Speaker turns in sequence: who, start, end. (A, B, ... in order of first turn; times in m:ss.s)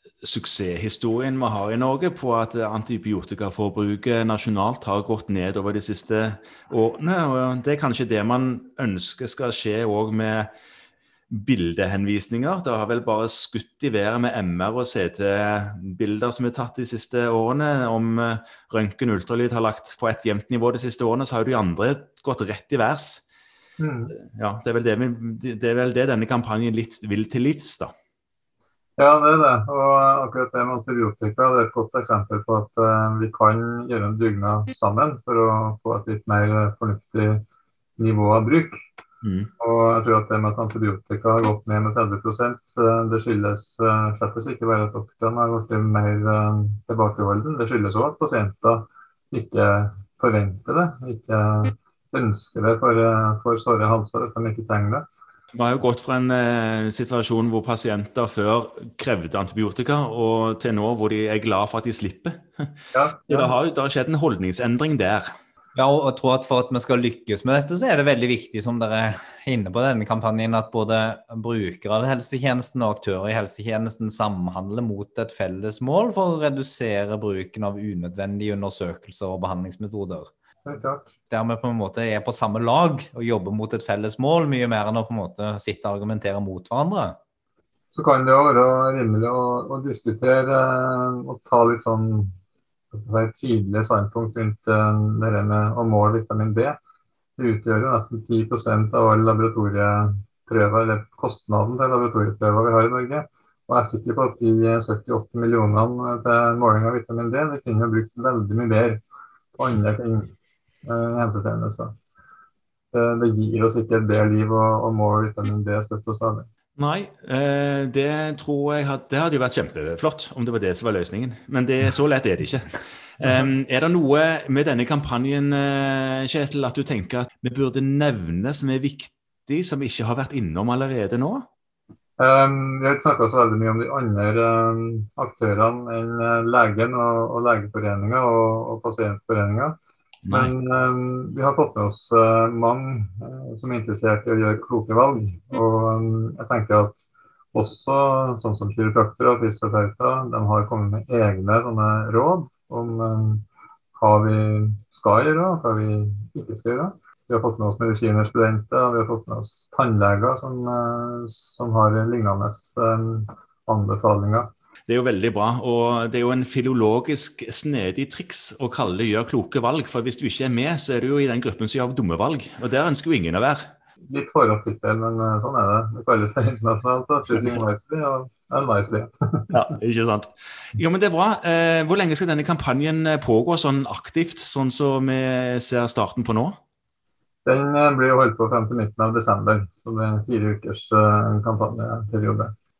0:00.2-0:10.5 A
0:11.3-0:23.2 A
0:23.8-0:24.1 B
0:24.3-0:27.9 A
0:29.0-0:37.4 B
0:38.0-0:38.7 B
0:39.2-0:39.5 A
0:39.6-0:55.0 B
0:55.5-1:02.8 A
1:02.9-1:03.6 B
1:03.3-1:05.3 A
1:05.7-1:20.3 C
1:20.6-1:21.1 B
1:21.3-1:27.2 C
1:27.9-1:32.3 B
1:32.9-1:36.8 B
1:37.4-1:49.0 B
1:49.6-1:50.3 B
1:50.8-1:51.9 B
1:52.9-1:56.5 B
1:56.8-2:11.4 A
2:12.2-2:19.8 B
2:20.2-2:20.5 A
2:20.3-2:26.9 B
2:27.5-2:33.4 B
2:34.0-2:44.5 B
2:44.9-2:53.6 A
2:54.1-2:59.5 B
2:57.3-2:57.6 A
2:59.5-3:06.6 A
3:07.4-3:12.5 B